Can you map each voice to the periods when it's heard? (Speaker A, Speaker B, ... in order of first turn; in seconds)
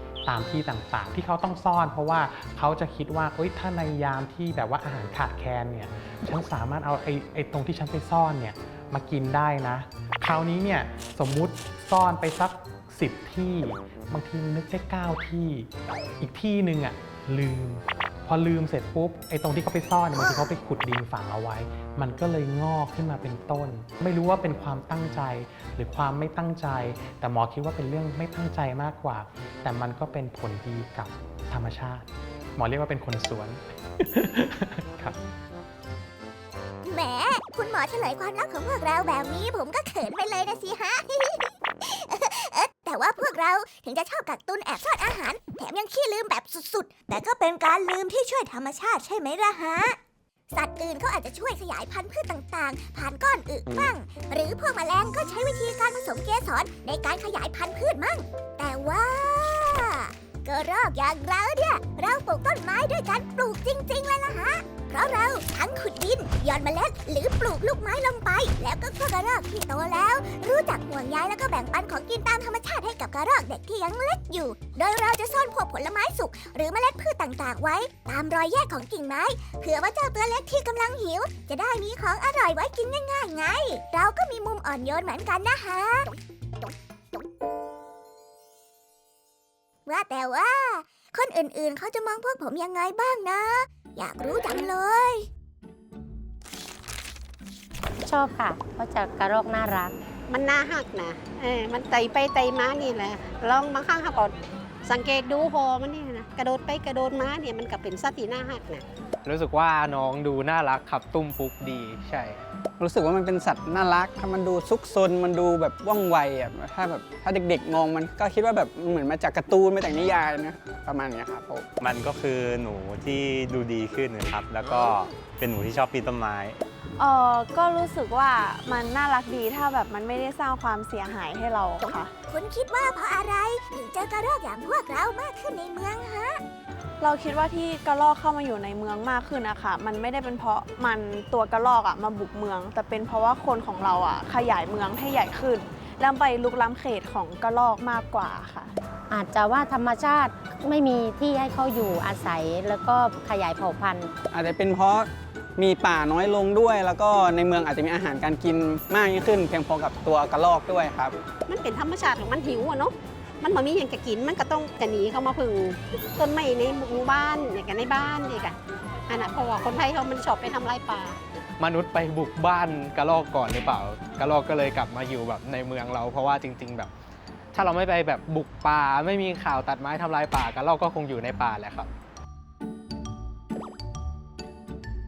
Speaker A: 0.2-15.7, 16.2-35.2
Speaker B: 36.8-50.0, 50.5-86.1, 89.8-95.3, 132.3-136.4
Speaker C: 98.0-99.9, 149.1-154.1
Speaker D: 100.3-108.8, 161.5-168.6, 169.1-171.2
Speaker E: 109.2-112.4, 171.6-176.9, 177.5-181.9
Speaker F: 112.8-121.7, 154.3-161.2
Speaker G: 121.8-126.6
Speaker H: 127.0-132.1, 137.0-148.7